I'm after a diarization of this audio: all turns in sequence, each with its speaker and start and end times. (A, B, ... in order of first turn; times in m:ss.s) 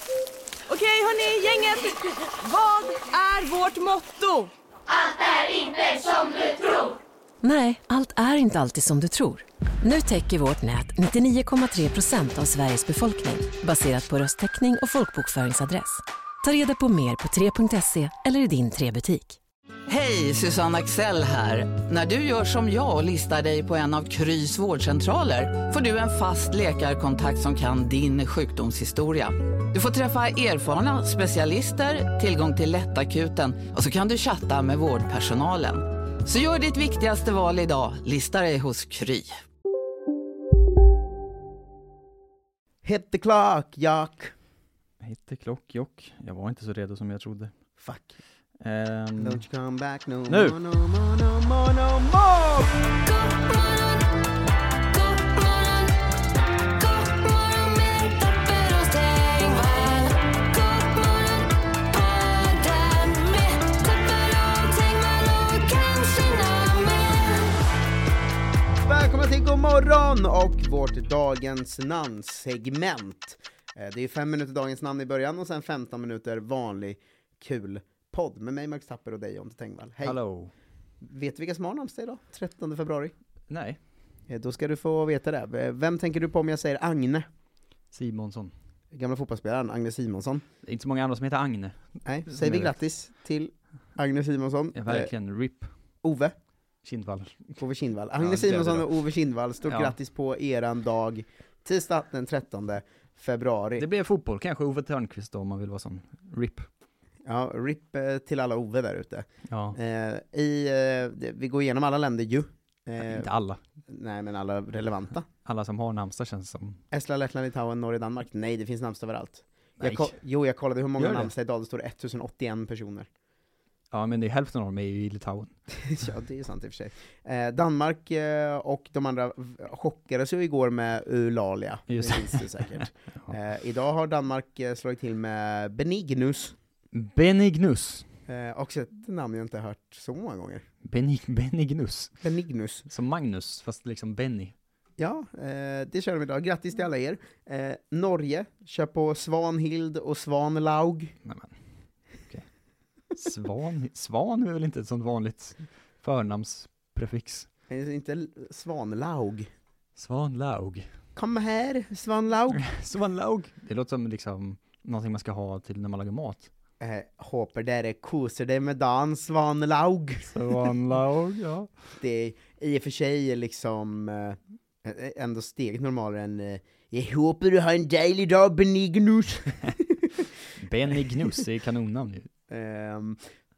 0:00.7-0:04.5 A
0:05.2-0:06.8 A
0:07.4-0:19.4 B
0:19.9-0:39.4 C
0:42.8-0:44.3 D
0:45.0-0:47.5 E
0:47.8-0:48.2 D
0:48.6-0:49.4 E
0:49.2-0:52.7 D
0:50.3-0:50.6 E
0:53.0-0:54.1 A
0:54.9-0:56.0 A
0:56.8-1:07.6 A
1:08.8-1:20.2 D
1:20.0-1:20.5 E
1:21.0-1:23.1 D
1:23.5-1:23.8 E
1:24.3-1:27.3 D
1:27.9-1:28.5 E
1:28.9-1:30.4 D
1:30.6-1:32.8 E
1:32.0-1:35.1 D
1:34.8-1:35.7 E
1:36.0-1:36.4 D
1:36.8-1:37.6 E
1:37.6-1:43.8 D
1:38.2-1:38.9 E
1:39.7-1:39.9 E
1:43.8-1:46.7 E
1:47.3-1:53.3 D
1:49.5-1:49.8 E
1:53.0-1:53.6 E
1:53.9-1:55.3 D
1:55.4-1:56.8 E
1:56.9-2:03.1 D
1:59.8-2:00.1 E
2:01.0-2:01.3 E
2:03.9-2:05.5 E
2:05.8-2:16.6 D
2:11.9-2:13.3 E
2:16.9-2:18.1 E
2:18.3-2:20.6 D
2:20.8-2:22.1 E
2:22.2-2:22.8 D
2:22.9-2:24.5 E
2:25.0-2:31.1 D
2:31.2-2:31.6 E
2:33.2-2:37.5 E
2:37.7-2:39.5 D
2:40.0-2:40.9 E
2:41.2-2:42.6 D
2:42.5-2:46.5 E
2:46.8-2:50.3 D
2:50.3-2:51.7 E
2:52.0-3:00.1 D
3:00.6-3:02.3 E
3:02.5-3:03.2 D